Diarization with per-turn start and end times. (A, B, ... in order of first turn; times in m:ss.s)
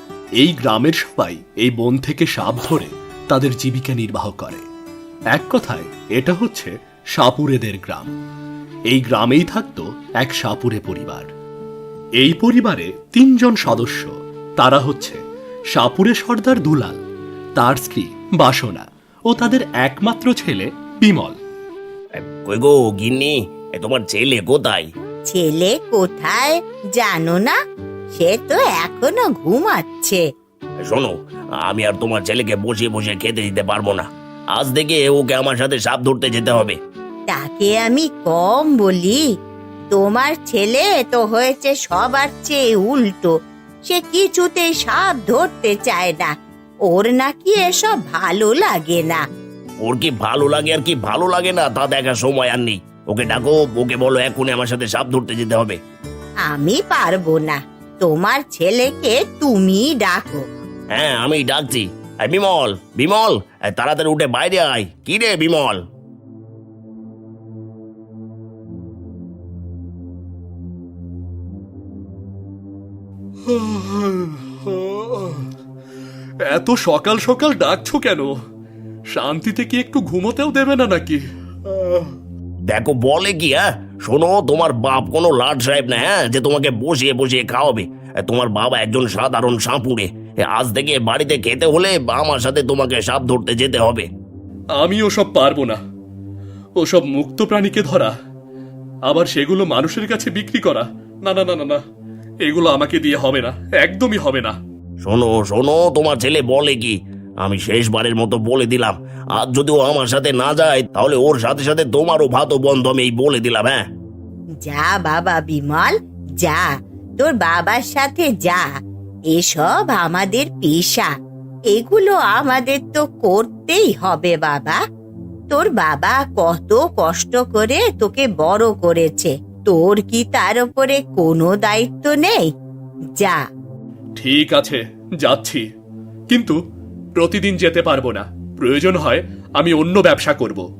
0:00.4-0:04.6 A
0:05.3-0:08.1 A
0:08.9-0:11.3 A
0:12.2-0:15.2 A
0:15.7-0:17.0 A
0:17.6-0:21.4 A
0:22.2-0:24.9 B
0:25.3-0:27.6 C
0:28.2-0:30.2 C
0:30.8-0:36.8 B
0:37.3-0:39.2 C
0:39.9-0:43.3 C
0:43.9-0:46.3 C
0:46.9-0:49.2 C
0:49.8-0:55.8 B
0:56.5-1:00.4 C
1:00.9-1:05.8 B
1:13.5-1:15.5 A
1:16.5-1:18.3 A
1:19.1-1:22.1 A
1:22.7-1:34.1 B
1:34.8-1:35.8 A
1:36.8-1:38.1 A
1:39.0-1:41.8 A
1:42.4-1:44.6 A
1:45.0-1:53.8 B
1:54.7-1:56.7 C
1:57.2-1:58.6 C
1:59.3-2:01.1 C
2:01.7-2:04.8 C
2:05.5-2:12.5 C
2:14.2-2:15.6 A
2:16.3-2:16.6 A
2:17.2-2:20.7 A